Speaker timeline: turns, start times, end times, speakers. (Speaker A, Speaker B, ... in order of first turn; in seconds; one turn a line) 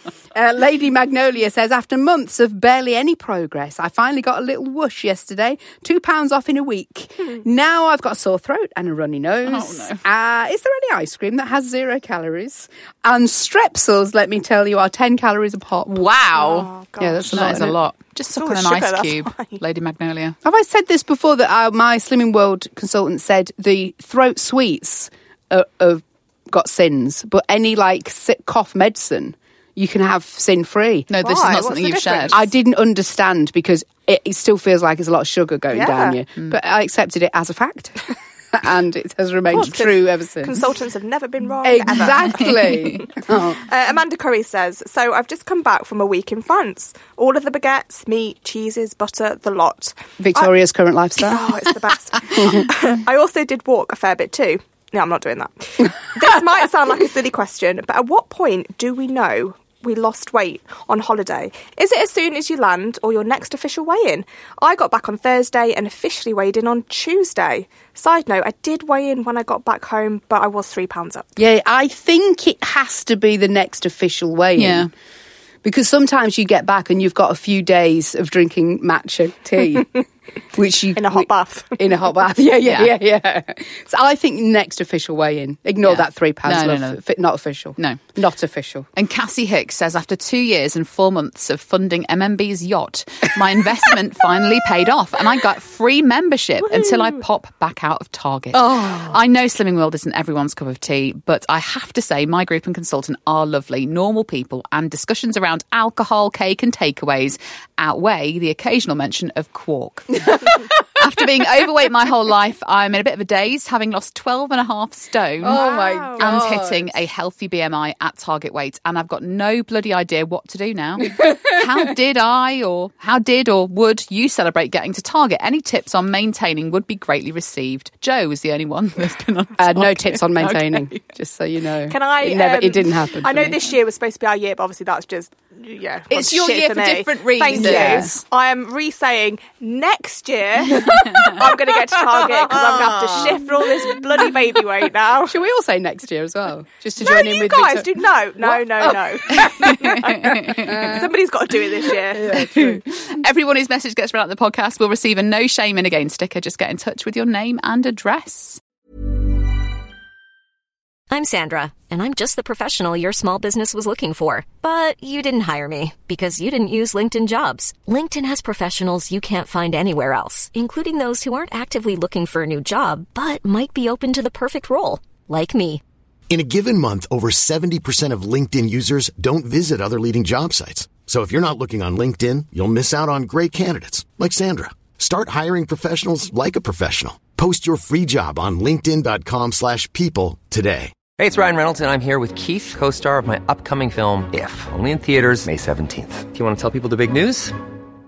Speaker A: 0.3-16.1
Speaker B: 9.4-10.0
Speaker B: 15.9-16.7
Speaker C: 16.3-17.7
Speaker A: 17.0-17.8
Speaker B: 17.3-20.4
Speaker C: 18.4-19.6
Speaker A: 20.4-31.1
Speaker B: 31.1-32.4
Speaker C: 31.2-32.4
Speaker A: 32.3-40.6
Speaker C: 35.7-36.2
Speaker C: 39.5-50.5
Speaker A: 41.6-43.6
Speaker B: 42.6-42.9
Speaker A: 50.2-51.5
Speaker C: 51.2-71.3
Speaker A: 52.4-52.6
Speaker A: 71.4-74.9
Speaker B: 74.6-74.9
Speaker A: 75.6-80.0
Speaker A: 80.5-88.9
Speaker C: 81.0-81.8
Speaker B: 82.6-82.9
Speaker B: 85.8-87.0
Speaker B: 87.8-88.0
Speaker B: 89.0-115.6
Speaker A: 98.5-99.2
Speaker A: 115.4-116.9
Speaker C: 115.5-116.3
Speaker B: 116.2-131.0
Speaker A: 129.6-133.6
Speaker C: 131.9-145.3
Speaker B: 136.1-138.2
Speaker A: 137.5-138.1
Speaker B: 140.8-141.4
Speaker A: 142.2-143.6
Speaker A: 145.2-149.9
Speaker C: 147.0-152.8
Speaker B: 149.3-151.0
Speaker A: 150.4-151.1
Speaker A: 152.1-152.8
Speaker B: 152.2-158.6
Speaker D: 161.1-175.8
Speaker E: 176.3-191.0
Speaker F: 191.2-197.5